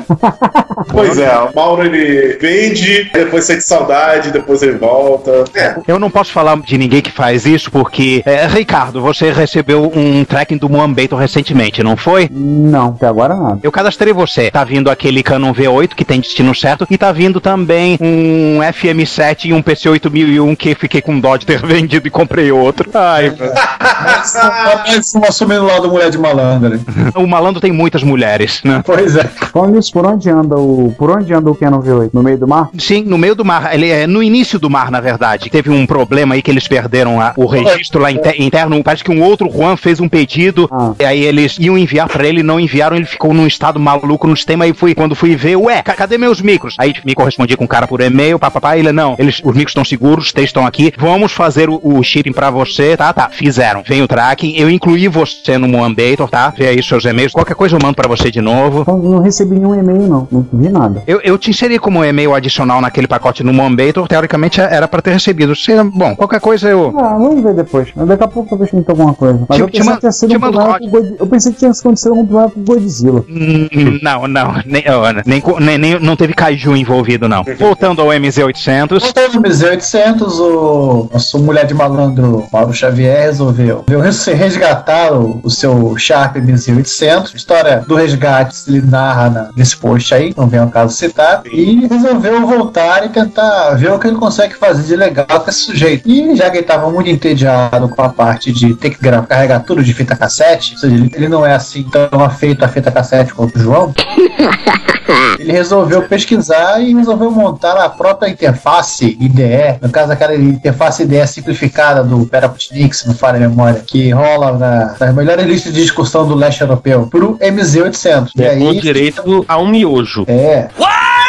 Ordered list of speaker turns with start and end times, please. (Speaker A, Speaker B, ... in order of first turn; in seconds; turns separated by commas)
Speaker A: 0.2-1.1, Speaker B: 0.9-5.8, Speaker C: 5.8-12.3, Speaker A: 12.3-13.6, Speaker C: 13.6-23.6, Speaker D: 23.2-26.8, Speaker B: 23.6-24.8, Speaker C: 27.1-28.9, Speaker D: 28.8-29.5, Speaker A: 29.5-32.7, Speaker C: 32.7-58.9, Speaker D: 37.6-38.2, Speaker A: 40.7-41.0, Speaker A: 58.9-61.0, Speaker C: 61.1-66.9, Speaker A: 66.9-73.2, Speaker C: 69.5-70.8, Speaker C: 73.3-79.1, Speaker B: 77.5-77.9, Speaker D: 79.0-104.0, Speaker B: 91.4-91.7, Speaker D: 105.4-119.2, Speaker E: 118.3-120.3, Speaker D: 120.3-120.7